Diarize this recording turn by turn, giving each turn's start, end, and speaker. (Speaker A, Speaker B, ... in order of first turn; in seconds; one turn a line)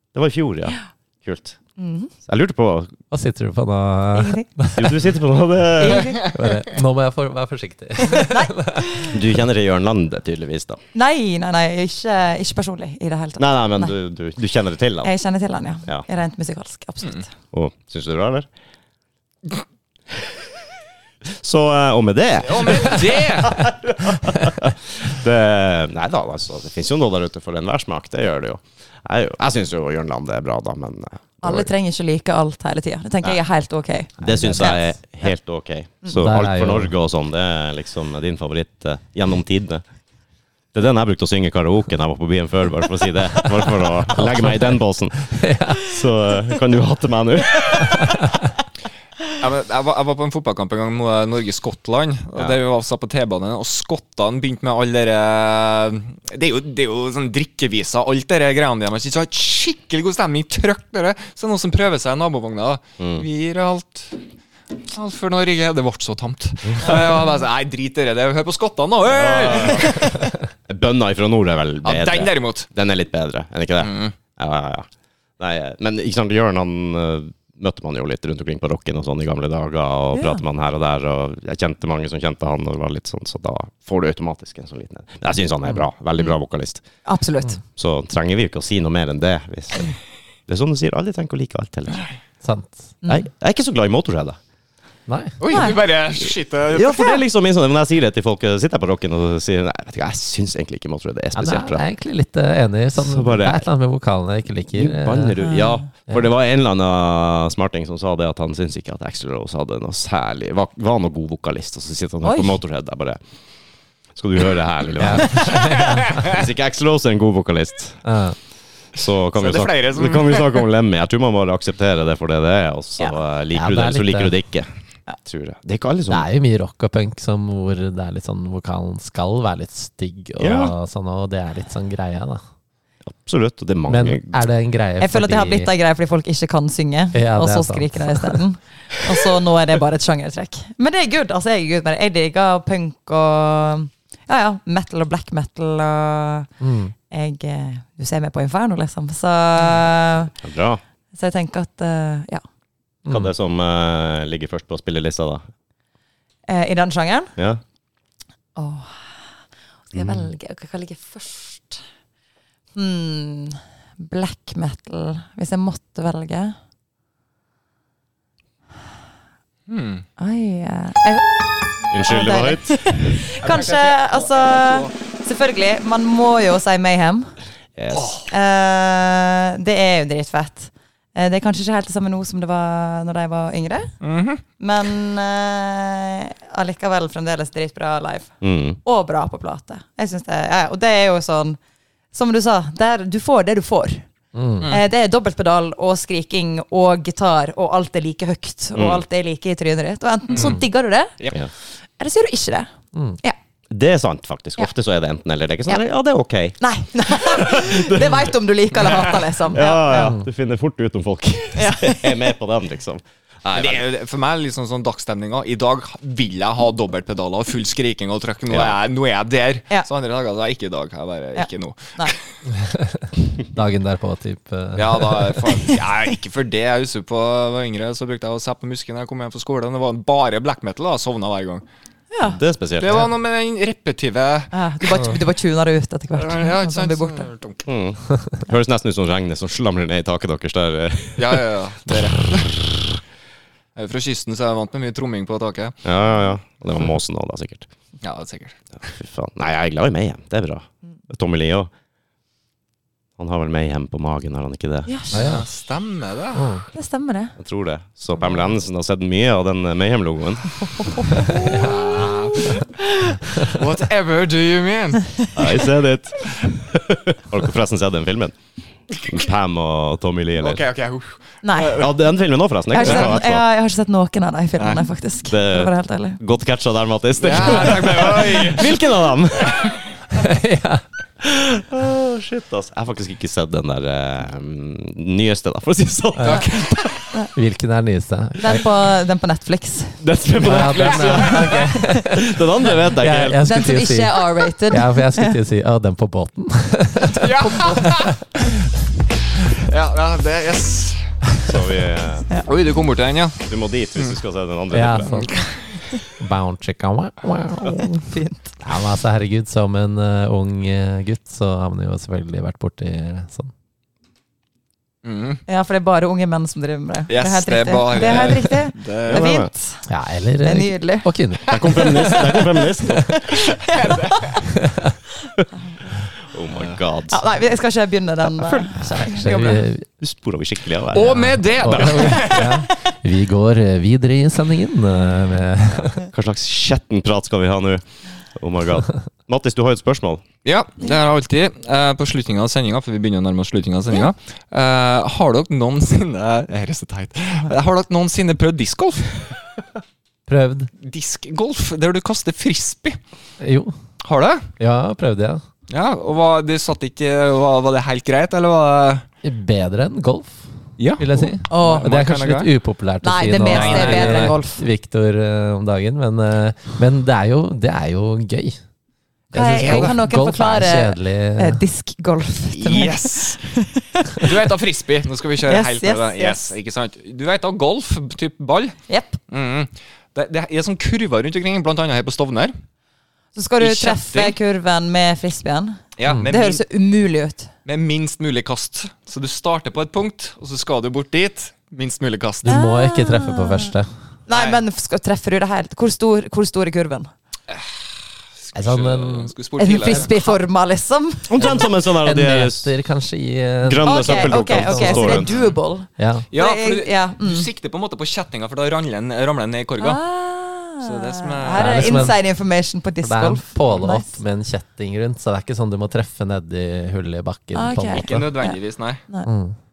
Speaker A: 0.1-1.6
Speaker B: 1.8-2.1
Speaker A: 2.2-2.9
Speaker C: 3.1-5.0
Speaker B: 4.2-4.5
Speaker A: 4.7-6.3
Speaker B: 5.8-6.3
Speaker C: 6.2-8.8
Speaker B: 8.0-9.1
Speaker A: 9.0-10.8
Speaker B: 10.9-13.9
Speaker A: 13.4-15.1
Speaker B: 15.0-17.3
Speaker A: 17.5-18.5
Speaker A: 21.4-31.7
Speaker D: 22.5-23.6
Speaker B: 31.4-35.0
Speaker A: 34.2-39.8
Speaker C: 34.3-34.7
Speaker C: 36.1-36.9
Speaker A: 40.7-48.2
Speaker C: 43.6-44.8
Speaker C: 45.4-45.8
Speaker D: 49.4-64.2
Speaker A: 63.0-63.2
Speaker D: 64.9-70.3
Speaker A: 69.1-69.9
Speaker A: 70.7-74.9
Speaker D: 71.8-72.7
Speaker D: 73.8-74.2
Speaker A: 75.4-86.8
Speaker B: 80.2-80.4
Speaker B: 87.0-87.6
Speaker A: 87.8-92.1
Speaker C: 92.4-92.9
Speaker A: 93.1-94.4
Speaker C: 95.1-95.4
Speaker D: 95.4-97.2
Speaker B: 95.5-95.8
Speaker A: 96.3-101.8
Speaker C: 101.3-105.4
Speaker A: 103.0-103.7
Speaker A: 104.8-113.2
Speaker B: 105.4-105.9
Speaker B: 112.2-112.5
Speaker A: 114.2-118.0
Speaker C: 115.0-116.2
Speaker D: 115.4-116.4
Speaker C: 118.0-118.4
Speaker A: 119.0-124.7
Speaker D: 119.3-120.7
Speaker C: 123.5-124.3
Speaker A: 125.2-126.3
Speaker C: 126.1-132.4
Speaker A: 130.4-130.7
Speaker A: 133.1-134.4
Speaker C: 133.9-135.7
Speaker B: 135.0-146.5
Speaker C: 137.1-138.4
Speaker C: 146.6-146.9
Speaker B: 147.1-150.3
Speaker A: 150.4-150.8
Speaker B: 151.1-152.4
Speaker C: 153.1-153.3
Speaker A: 153.1-155.4
Speaker B: 156.5-157.3
Speaker B: 158.6-159.0
Speaker B: 159.9-161.8
Speaker A: 159.9-160.3
Speaker B: 162.8-166.6
Speaker D: 169.7-170.1
Speaker B: 170.2-177.3
Speaker A: 171.9-172.9
Speaker D: 173.4-174.9
Speaker A: 177.8-178.2
Speaker D: 177.9-178.3
Speaker B: 178.3-183.9
Speaker D: 184.0-184.4
Speaker B: 184.6-191.6
Speaker A: 188.4-188.8
Speaker B: 192.1-194.1
Speaker C: 194.3-194.7
Speaker B: 194.6-201.1
Speaker A: 198.8-199.0
Speaker D: 200.3-200.6
Speaker B: 201.8-203.4
Speaker A: 203.7-206.6
Speaker B: 206.6-210.2
Speaker A: 207.1-208.3
Speaker A: 209.5-213.8
Speaker C: 209.9-210.2
Speaker B: 211.6-212.2
Speaker D: 213.5-222.2
Speaker A: 218.5-218.8
Speaker B: 221.4-222.1
Speaker C: 222.8-225.5
Speaker D: 224.8-231.7
Speaker B: 232.1-232.4
Speaker A: 232.3-233.0
Speaker D: 232.8-235.0
Speaker B: 234.5-237.3
Speaker D: 236.1-237.7
Speaker A: 237.7-241.4
Speaker D: 241.2-242.6
Speaker A: 242.3-242.8
Speaker D: 243.8-245.8
Speaker A: 245.8-247.7
Speaker D: 248.0-248.6
Speaker A: 248.8-251.7
Speaker A: 253.2-254.9
Speaker B: 254.9-255.2
Speaker D: 255.1-256.5
Speaker C: 255.1-255.4
Speaker C: 256.4-256.6
Speaker B: 256.7-257.4
Speaker A: 257.4-261.3
Speaker B: 260.8-261.6
Speaker D: 261.4-262.6
Speaker C: 261.4-261.7
Speaker D: 263.4-265.1
Speaker A: 265.4-268.4
Speaker A: 268.9-270.6
Speaker D: 270.4-271.9
Speaker B: 271.4-271.8
Speaker A: 271.7-273.4
Speaker B: 272.7-276.2
Speaker D: 272.8-273.1
Speaker A: 275.3-279.8
Speaker D: 277.2-278.9
Speaker C: 280.1-280.8
Speaker A: 281.2-286.8
Speaker C: 286.2-286.5
Speaker D: 286.2-287.0
Speaker C: 287.3-288.6
Speaker B: 288.4-290.0
Speaker A: 290.0-293.5
Speaker C: 290.4-298.0
Speaker D: 290.8-291.5
Speaker B: 293.4-295.3
Speaker D: 297.1-298.2
Speaker D: 299.4-301.3
Speaker A: 301.4-302.3
Speaker D: 302.4-304.2
Speaker A: 303.4-305.3
Speaker C: 304.7-305.4
Speaker D: 305.0-305.5
Speaker C: 306.1-313.5
Speaker B: 307.9-308.5
Speaker D: 315.0-315.4
Speaker B: 315.5-319.8
Speaker D: 317.1-319.3
Speaker A: 319.1-319.5
Speaker C: 319.9-321.9
Speaker B: 320.4-321.1
Speaker D: 321.5-322.3
Speaker A: 321.5-323.6
Speaker C: 322.9-323.2
Speaker B: 323.3-324.2
Speaker D: 323.7-324.5
Speaker C: 324.6-324.9
Speaker A: 326.3-327.2
Speaker D: 326.5-326.8
Speaker B: 327.1-329.7
Speaker C: 328.7-329.9
Speaker A: 330.0-332.1
Speaker D: 330.9-332.6
Speaker C: 331.1-336.0
Speaker B: 332.0-332.7
Speaker A: 335.9-340.2
Speaker D: 340.4-349.3
Speaker C: 350.3-350.7
Speaker D: 350.8-353.0
Speaker C: 353.4-353.8
Speaker D: 354.0-354.5
Speaker C: 354.6-355.4
Speaker D: 355.7-359.1
Speaker C: 359.2-360.5
Speaker D: 360.8-362.5
Speaker C: 361.0-368.6
Speaker B: 361.5-361.9
Speaker B: 363.0-364.6
Speaker D: 363.4-364.4
Speaker C: 369.3-371.6
Speaker B: 369.3-374.3
Speaker D: 369.6-369.9
Speaker D: 372.5-373.4
Speaker D: 374.2-382.5
Speaker B: 375.5-376.5
Speaker B: 378.9-379.2
Speaker B: 383.4-387.5
Speaker D: 383.6-384.4
Speaker D: 386.0-386.6
Speaker D: 387.6-392.6
Speaker C: 392.4-393.9
Speaker B: 392.4-393.7
Speaker B: 394.3-397.1
Speaker D: 394.3-394.6
Speaker D: 397.5-400.1
Speaker C: 398.6-399.3
Speaker B: 399.6-401.6
Speaker C: 399.9-400.2
Speaker A: 401.3-402.7
Speaker C: 401.4-405.2
Speaker A: 403.6-405.3
Speaker B: 403.9-407.5
Speaker D: 405.2-405.6
Speaker C: 406.0-406.3
Speaker D: 406.3-410.0
Speaker B: 409.8-414.2
Speaker D: 410.8-412.1
Speaker C: 411.6-412.2
Speaker C: 413.0-418.3
Speaker B: 417.5-419.3
Speaker D: 417.9-419.0
Speaker C: 419.2-419.6